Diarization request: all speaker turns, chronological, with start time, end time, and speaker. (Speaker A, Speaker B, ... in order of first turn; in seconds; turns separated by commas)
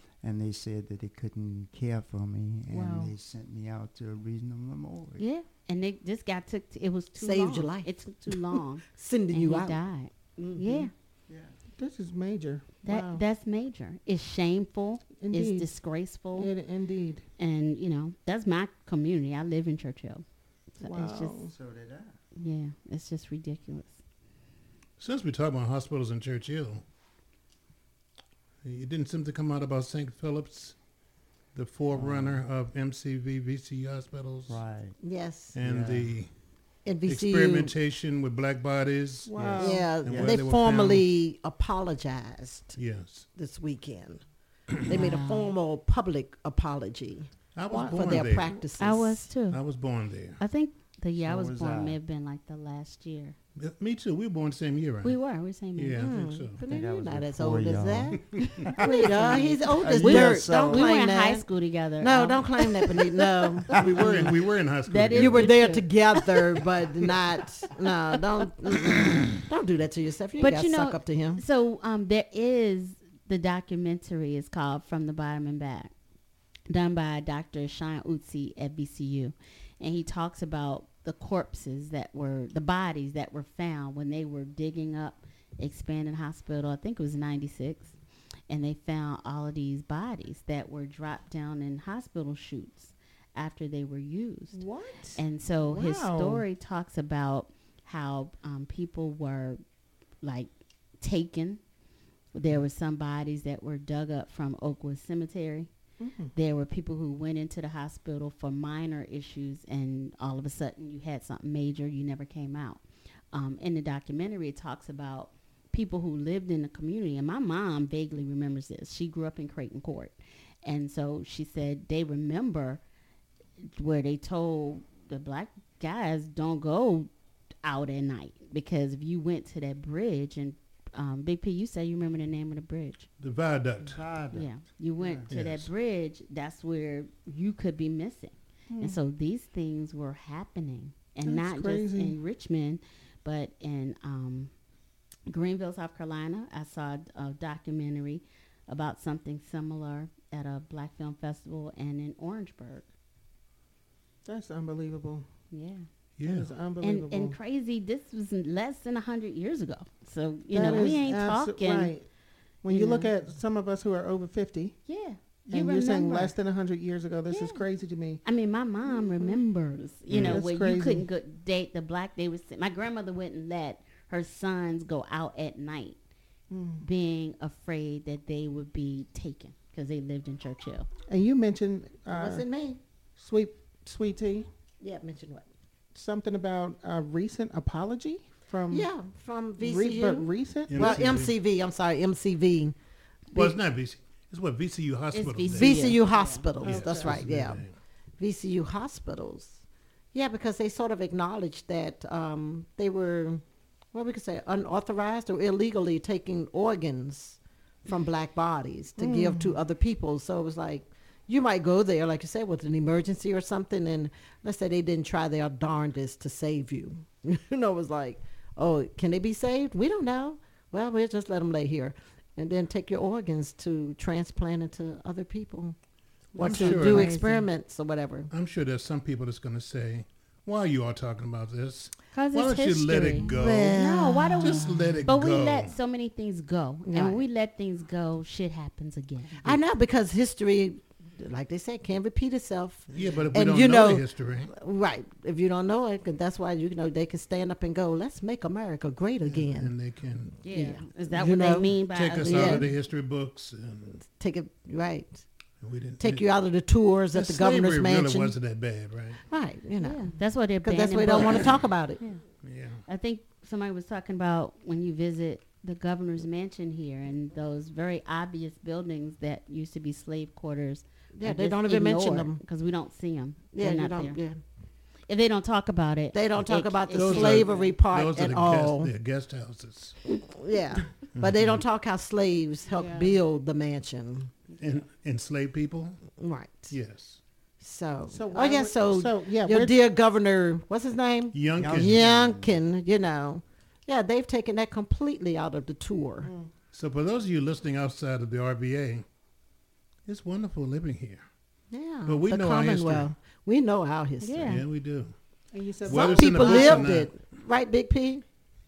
Speaker A: 0.2-5.2, Speaker B: 2.7-3.1, Speaker C: 5.2-10.9, Speaker D: 7.2-7.9, Speaker D: 8.9-9.8, Speaker D: 10.6-10.9, Speaker A: 11.3-11.5, Speaker B: 11.8-13.2, Speaker C: 12.8-16.5, Speaker B: 15.2-15.7, Speaker B: 16.4-17.2, Speaker C: 17.4-20.2, Speaker C: 20.8-21.4, Speaker B: 20.8-21.5, Speaker A: 21.3-22.2, Speaker C: 22.4-24.0, Speaker E: 25.0-26.8, Speaker E: 28.6-30.8, Speaker E: 31.6-34.6, Speaker A: 31.9-32.4, Speaker A: 34.5-34.9, Speaker D: 35.0-35.5, Speaker E: 35.5-36.3, Speaker A: 35.6-36.1, Speaker D: 36.9-37.7, Speaker E: 37.0-41.1, Speaker B: 39.3-39.9, Speaker D: 39.6-42.8, Speaker A: 40.1-40.4, Speaker E: 42.8-43.3, Speaker D: 43.4-44.2, Speaker E: 44.8-45.1, Speaker C: 44.9-45.5, Speaker D: 44.9-47.3, Speaker E: 47.5-48.5, Speaker B: 47.7-48.1, Speaker D: 47.9-49.2, Speaker C: 48.8-49.6, Speaker E: 49.5-50.4, Speaker C: 50.4-53.4, Speaker A: 51.2-52.0, Speaker E: 53.6-55.2, Speaker C: 55.0-56.1, Speaker E: 55.8-56.6, Speaker D: 56.0-58.2, Speaker A: 56.6-60.9, Speaker C: 58.8-62.4, Speaker D: 58.8-61.4, Speaker D: 62.0-63.7, Speaker E: 63.7-65.6, Speaker C: 64.9-66.4, Speaker D: 65.2-71.4, Speaker C: 70.4-75.9, Speaker C: 76.7-88.0, Speaker C: 88.5-94.6, Speaker B: 94.5-96.5, Speaker C: 95.2-99.6, Speaker C: 100.2-101.6, Speaker C: 102.3-105.7, Speaker B: 106.0-106.3, Speaker C: 106.3-112.8, Speaker C: 113.3-122.8, Speaker C: 123.7-127.1, Speaker C: 127.6-133.1, Speaker E: 133.2-134.0, Speaker A: 133.8-135.3, Speaker C: 134.3-144.5, Speaker E: 135.3-135.7, Speaker B: 138.7-139.0, Speaker B: 141.2-142.2, Speaker C: 145.3-152.9, Speaker B: 154.3-155.3, Speaker C: 155.5-155.8, Speaker E: 156.2-156.5, Speaker B: 156.3-157.4, Speaker C: 156.8-161.9, Speaker B: 160.5-162.0, Speaker B: 162.6-164.8, Speaker C: 162.7-163.1, Speaker C: 164.9-166.3, Speaker B: 165.5-168.2, Speaker C: 167.3-167.6, Speaker C: 168.2-176.0, Speaker B: 168.8-169.4, Speaker E: 170.1-170.4, Speaker B: 170.2-171.1, Speaker B: 176.5-176.8, Speaker C: 176.8-180.9, Speaker B: 181.1-182.5, Speaker D: 182.1-182.8, Speaker B: 183.2-184.5, Speaker D: 184.8-185.5, Speaker B: 185.9-188.9, Speaker D: 188.7-192.7, Speaker B: 189.6-191.0, Speaker E: 190.7-191.4, Speaker E: 193.3-196.0, Speaker C: 195.1-197.0, Speaker D: 195.5-197.6, Speaker E: 196.6-197.8, Speaker D: 198.2-199.6, Speaker D: 200.1-203.4, Speaker D: 203.9-225.8, Speaker B: 209.0-209.6, Speaker E: 226.3-227.2, Speaker D: 226.4-228.3, Speaker C: 226.5-227.5, Speaker E: 228.3-235.7, Speaker C: 232.1-239.6, Speaker D: 233.3-234.7, Speaker D: 236.9-237.2, Speaker D: 239.4-249.7, Speaker E: 242.9-244.5, Speaker E: 249.2-250.4, Speaker C: 250.4-252.7, Speaker D: 250.5-252.7, Speaker E: 251.9-254.0, Speaker D: 254.0-255.2, Speaker E: 255.6-256.3, Speaker D: 256.0-258.4, Speaker E: 257.1-259.2, Speaker D: 259.3-260.1, Speaker C: 259.8-262.2, Speaker D: 260.6-262.0, Speaker E: 262.4-262.8, Speaker C: 262.9-274.2, Speaker D: 271.2-272.4, Speaker D: 273.6-274.4, Speaker C: 275.1-277.7, Speaker D: 276.1-278.9, Speaker E: 276.9-280.0, Speaker D: 280.4-284.3, Speaker E: 281.1-281.6, Speaker C: 282.7-283.2, Speaker C: 284.5-284.8, Speaker E: 284.6-286.0, Speaker D: 286.2-286.7, Speaker E: 286.7-287.2, Speaker D: 287.6-296.3, Speaker B: 288.1-289.8, Speaker E: 291.3-292.0, Speaker A: 291.6-292.6, Speaker B: 296.2-296.5, Speaker E: 296.7-299.1, Speaker E: 300.1-301.2, Speaker D: 301.7-304.6, Speaker E: 302.1-303.1, Speaker C: 304.2-304.6, Speaker E: 304.4-305.1, Speaker B: 305.5-306.9, Speaker E: 305.9-307.2, Speaker D: 305.9-308.2